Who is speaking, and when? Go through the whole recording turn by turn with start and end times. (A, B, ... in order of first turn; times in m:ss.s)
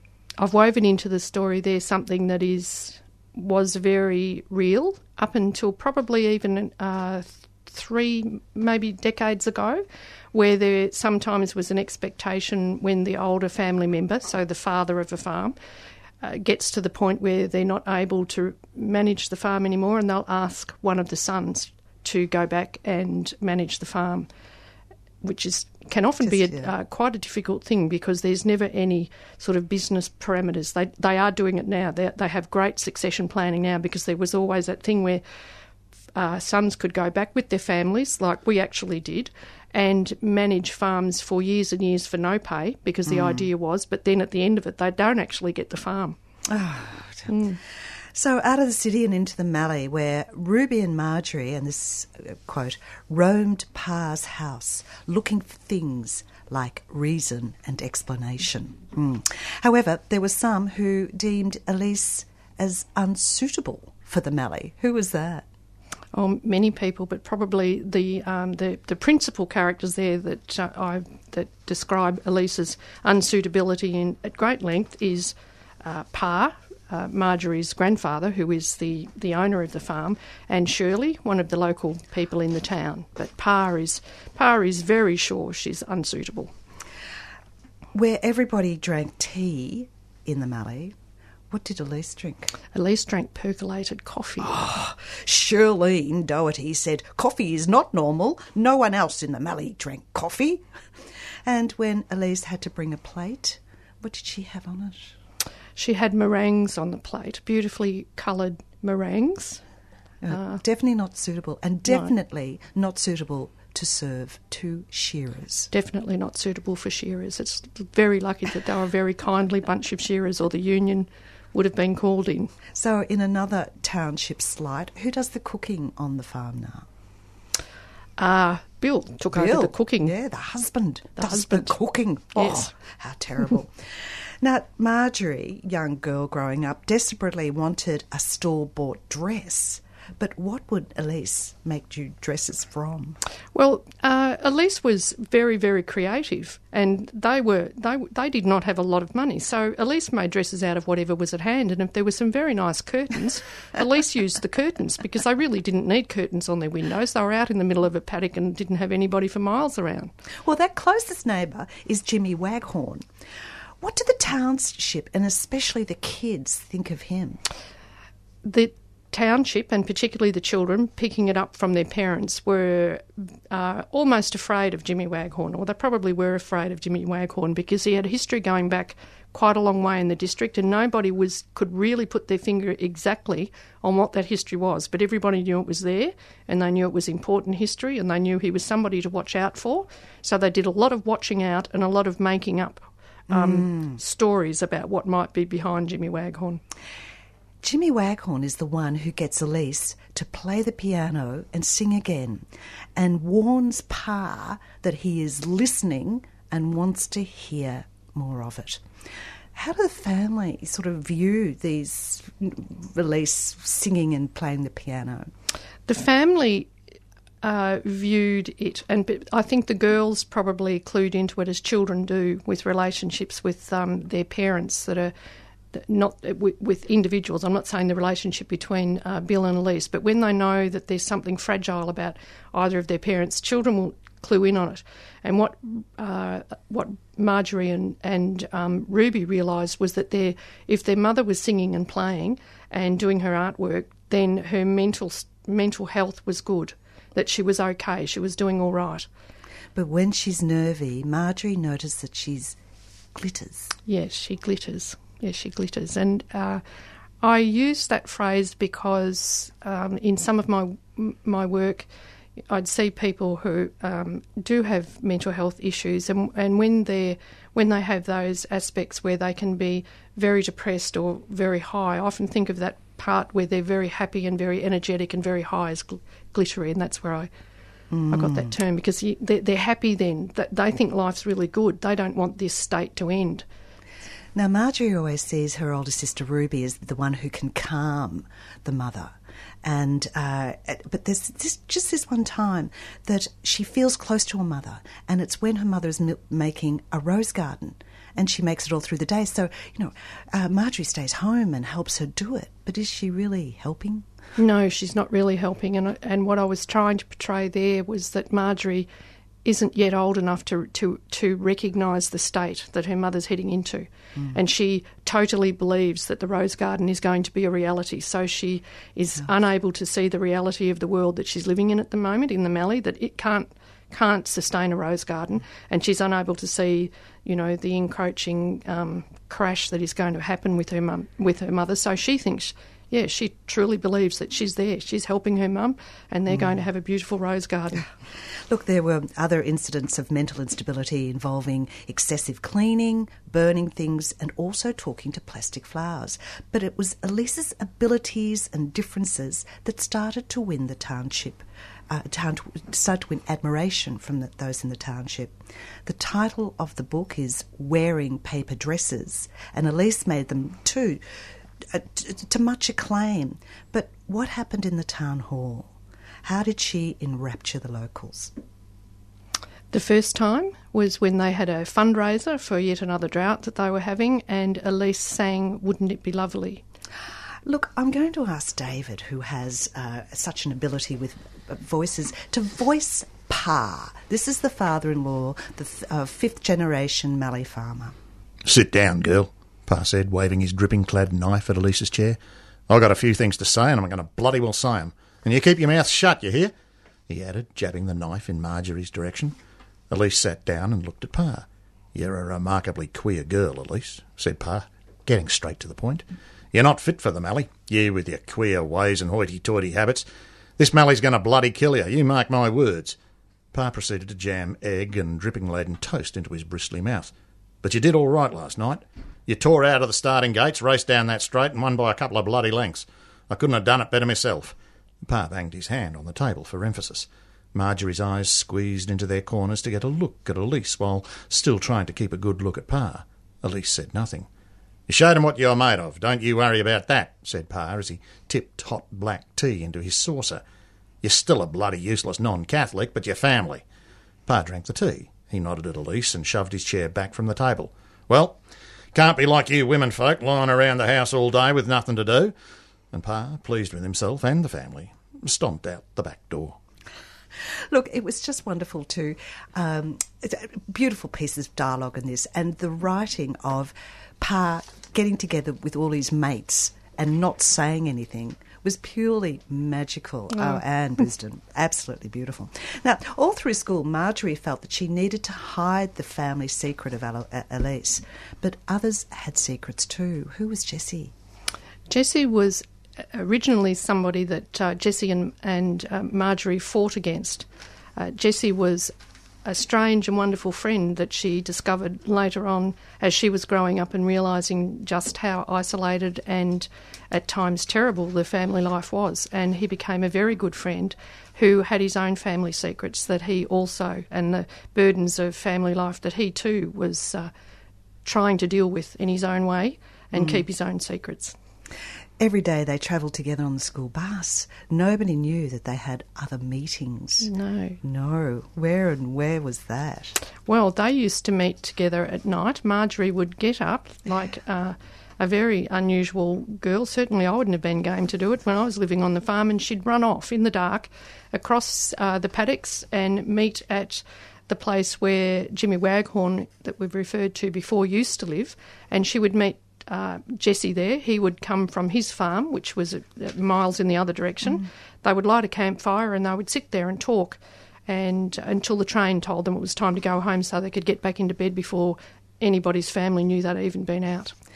0:00.4-0:15.6 A
0:16.2-0:24.3 A
0:25.2-0:35.2 A
0:26.2-0:26.7 B
0:36.2-0:46.2 A
0:43.1-0:43.5 B
0:46.5-1:05.5 B
0:47.3-0:47.6 A
1:06.1-1:26.5 A
1:27.9-1:31.0 B
1:31.5-1:32.5 B
1:32.7-1:34.6 A
1:34.4-1:40.6 B
1:41.5-1:45.1 B
1:45.8-1:49.6 A
1:50.2-1:55.7 B
1:50.3-1:50.6 A
1:55.7-2:02.5 A
2:02.7-2:06.9 B
2:08.2-2:10.2 A
2:09.3-2:23.2 B
2:11.2-2:11.8 A
2:12.3-2:12.7 A
2:23.6-2:40.1 A
2:40.4-2:43.0 B
2:43.8-2:47.4 B
2:48.4-3:16.6 A
3:13.3-3:14.0 B
3:17.6-3:28.8 B
3:29.5-3:35.3 B
3:35.9-3:36.7 A
3:37.4-3:45.1 A
3:45.7-4:09.1 A
4:09.8-4:12.6 B
4:13.2-4:13.7 B
4:13.9-4:16.6 A
4:17.2-4:21.9 A
4:22.5-4:37.3 A
4:37.9-4:38.6 B
4:38.1-4:43.4 A
4:44.4-5:04.1 B
5:04.4-5:08.9 A
5:09.4-5:37.9 A
5:36.3-5:36.6 B
5:38.3-6:01.0 B
6:01.7-6:05.7 B
6:06.2-6:08.3 B
6:09.7-6:16.6 A
6:17.4-6:28.0 B
6:28.4-6:36.5 C
6:37.1-6:39.4 C
6:39.9-6:50.1 C
6:50.6-6:53.0 C
6:53.5-6:57.1 C
6:57.6-7:14.3 C
7:14.9-7:20.4 C
7:21.0-7:23.6 C
7:24.3-7:28.4 C
7:28.9-7:32.3 C
7:32.9-7:36.6 C
7:37.4-8:01.1 B
7:50.4-7:50.6 A
8:01.9-8:07.4 A
8:08.0-8:08.9 A
8:09.4-8:27.3 A
8:28.0-8:31.4 A
8:32.2-8:37.3 B
8:37.2-8:37.8 A
8:37.8-8:40.2 B
8:40.5-9:14.3 A